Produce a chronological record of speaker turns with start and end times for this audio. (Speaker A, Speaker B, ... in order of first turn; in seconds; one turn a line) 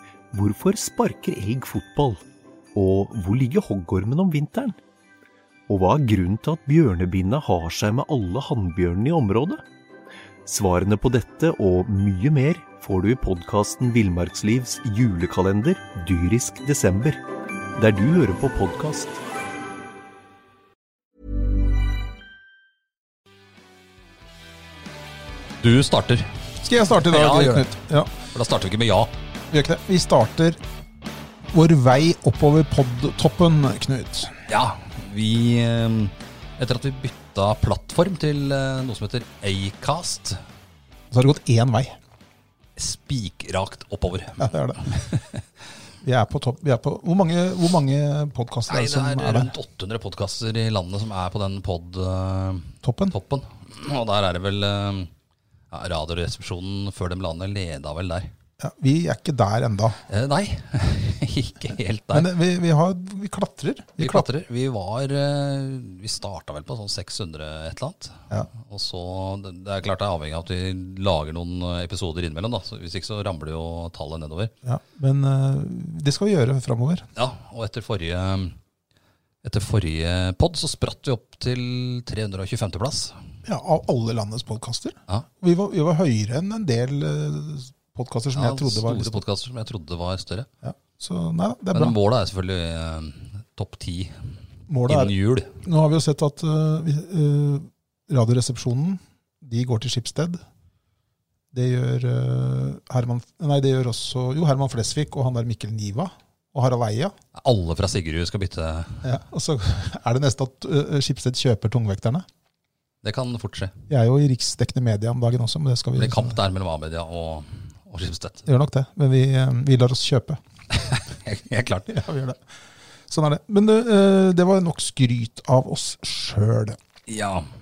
Speaker A: 0.3-2.2
Speaker A: 2.7-4.8
Speaker A: 5.7-9.6
Speaker A: 10.4-17.2
Speaker A: 17.8-19.2
Speaker B: 25.6-26.3
Speaker C: 26.6-28.1
Speaker B: 27.1-27.7
Speaker B: 28.3-29.1
Speaker C: 29.5-30.6
Speaker C: 31.5-34.3
Speaker B: 34.5-40.4
Speaker C: 41.1-42.0
Speaker B: 42.8-45.4
Speaker C: 44.4-44.8
Speaker C: 46.0-49.5
Speaker B: 48.7-55.1
Speaker C: 52.8-53.1
Speaker B: 55.7-58.3
Speaker C: 58.6-60.0
Speaker B: 60.1-62.3
Speaker C: 62.1-64.3
Speaker B: 64.0-74.5
Speaker C: 74.6-77.1
Speaker B: 77.2-78.5
Speaker B: 79.4-83.2
Speaker C: 83.4-89.2
Speaker B: 88.3-90.5
Speaker C: 90.6-91.9
Speaker B: 91.7-94.2
Speaker C: 94.7-100.4
Speaker B: 94.9-95.5
Speaker C: 101.5-107.1
Speaker B: 107.3-109.0
Speaker C: 109.0-112.2
Speaker B: 113.0-113.8
Speaker C: 113.9-116.4
Speaker B: 116.0-118.4
Speaker C: 118.5-120.4
Speaker B: 120.7-121.9
Speaker C: 121.9-122.4
Speaker C: 123.1-126.8
Speaker B: 127.1-127.5